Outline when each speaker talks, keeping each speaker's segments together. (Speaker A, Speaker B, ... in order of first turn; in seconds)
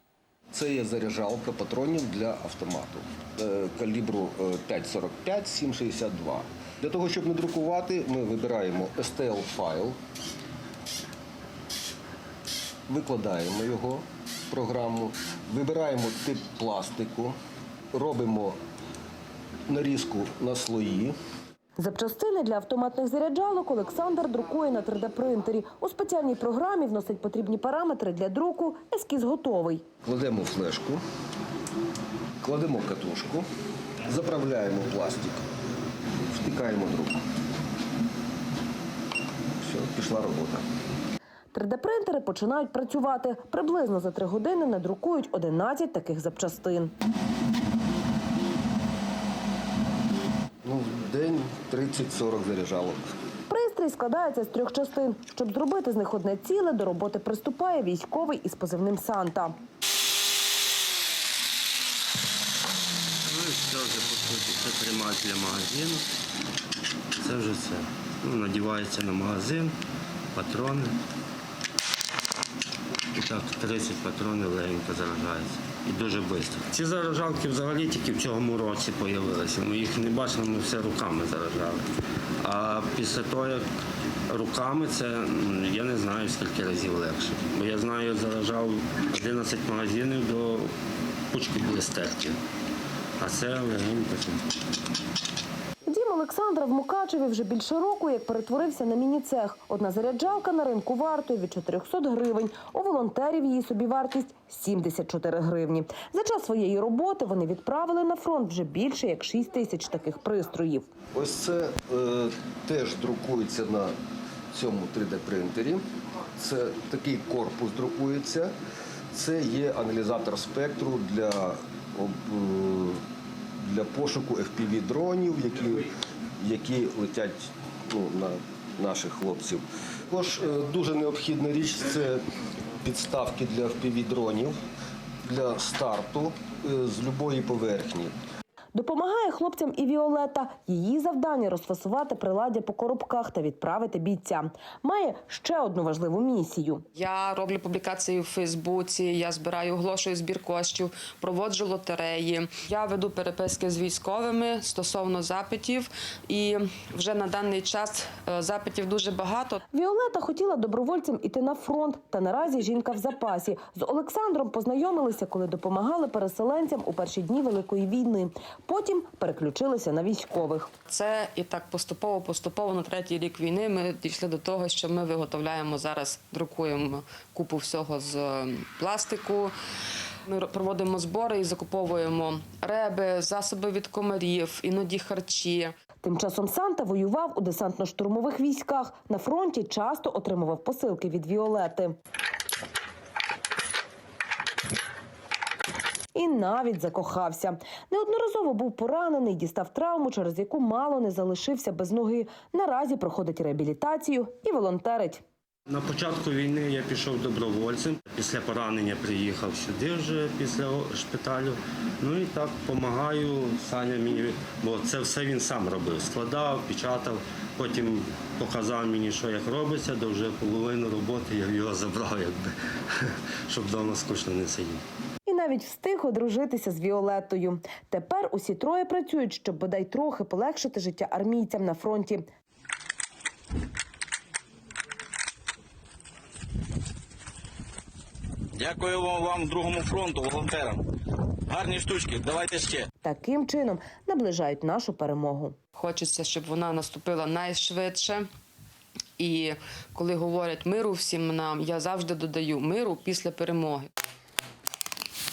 Speaker A: 0.5-10.0, 12.9-17.4, 17.9-18.6, 19.7-21.2, 30.0-31.0, 32.4-33.5, 34.1-35.5, 36.1-37.2, 39.6-40.6, 50.6-53.1, 111.1-113.9, 114.5-115.8, 116.4-118.5, 119.1-123.0, 123.6-132.2, 132.8-134.6, 135.2-138.2
Speaker B: 21.8-29.9, 41.5-46.9, 53.5-59.5, 95.9-110.9, 138.7-146.8, 159.7-170.7, 186.0-192.0, 196.2-205.2, 225.3-232.2, 243.0-245.6
Speaker C: 63.3-66.1, 67.2-69.8, 70.3-71.0, 73.1-81.8, 82.4-83.7, 84.3-90.7, 91.3-92.4, 93.2-94.4, 205.7-224.8
Speaker D: 146.9-159.6, 170.9-179.6, 180.3-185.7, 245.8-248.3, 249.2-253.9
Speaker E: 238.6-240.8, 241.5-242.9